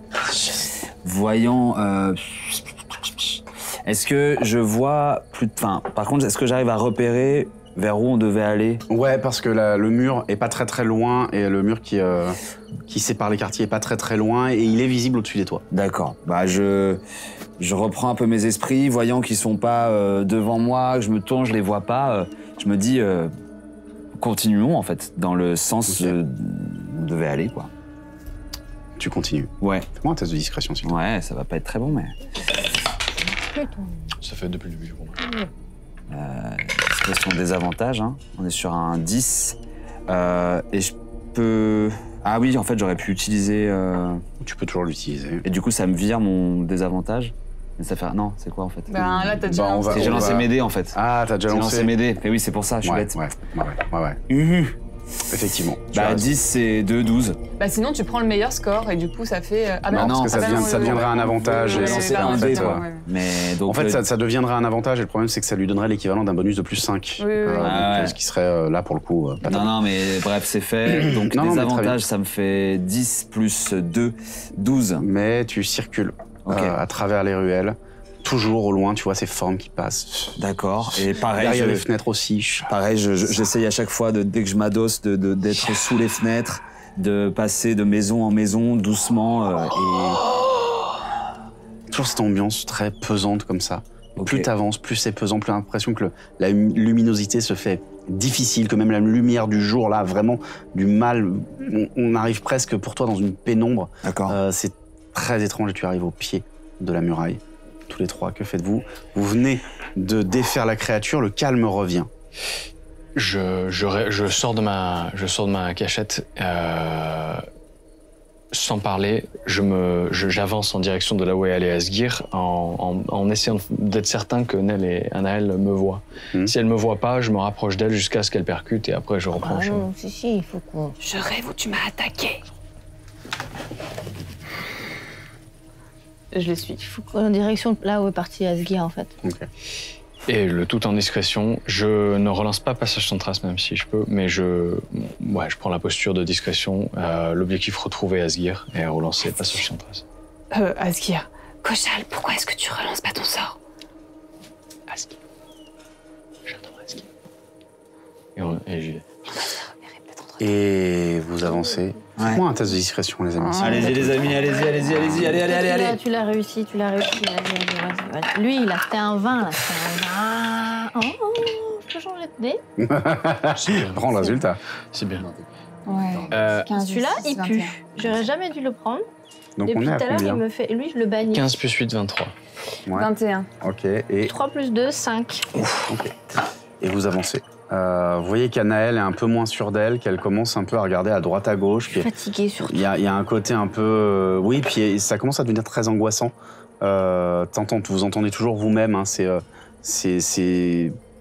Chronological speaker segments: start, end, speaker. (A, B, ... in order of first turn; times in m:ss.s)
0:00.3-0:08.8 A
0:08.9-0:15.6 B
0:15.7-0:17.0 A
0:17.6-0:23.3 A
0:24.2-0:27.7 A
0:25.9-0:26.2 B
0:29.0-0:30.9 B
0:29.6-0:29.9 A
0:30.8-0:32.2 A
0:33.4-0:33.9 C
0:34.2-0:35.2 D
0:36.1-0:44.2 A
0:44.4-0:45.4 B
0:45.4-0:51.0 A
0:48.9-0:50.5 E
0:49.2-0:51.9 B
0:51.5-0:53.2 A
0:52.8-0:54.8 B
0:55.3-0:56.3 B
0:55.9-0:57.4 A
0:57.6-1:03.0 E
0:59.9-1:02.8 B
0:59.9-1:04.0 A
1:03.7-1:09.7 B
1:07.2-1:07.8 E
1:07.6-1:08.2 A
1:09.4-1:15.0 A
1:10.9-1:12.0 B
1:15.0-1:20.4 B
1:16.4-1:16.8 A
1:20.4-1:21.9 A
1:20.9-1:22.7 B
1:22.6-1:30.2 A
1:31.9-1:52.1 B
1:34.2-1:34.5 A
1:44.0-1:44.4 A
1:53.1-1:57.4 D
1:58.5-2:09.9 D
2:09.4-2:11.0 C
2:11.0-2:12.4 E
2:16.3-2:16.8 E
2:16.8-2:19.1 C
2:19.2-2:19.5 B
2:20.3-2:30.0 D
2:30.5-2:33.6 E
2:38.4-2:39.0 D
2:40.4-2:44.3 B
2:42.2-2:42.4 A
2:43.4-2:44.1 E
2:43.6-2:46.0 A
2:45.2-2:52.6 C
2:52.8-2:54.6 B
2:53.6-2:54.4 D
2:54.9-2:55.2 D
2:55.2-2:56.6 A
2:55.8-2:57.7 E
2:56.3-2:56.7 D
2:56.7-2:59.0 C
2:59.6-3:00.4 B
2:59.6-3:01.6 C
3:01.3-3:02.3 D
3:02.9-3:03.5 E
3:03.6-3:04.3 B
3:04.2-3:05.5 C
3:05.6-3:06.1 B
3:06.8-3:12.1 B
3:11.9-3:12.8 C
3:12.6-3:20.9 B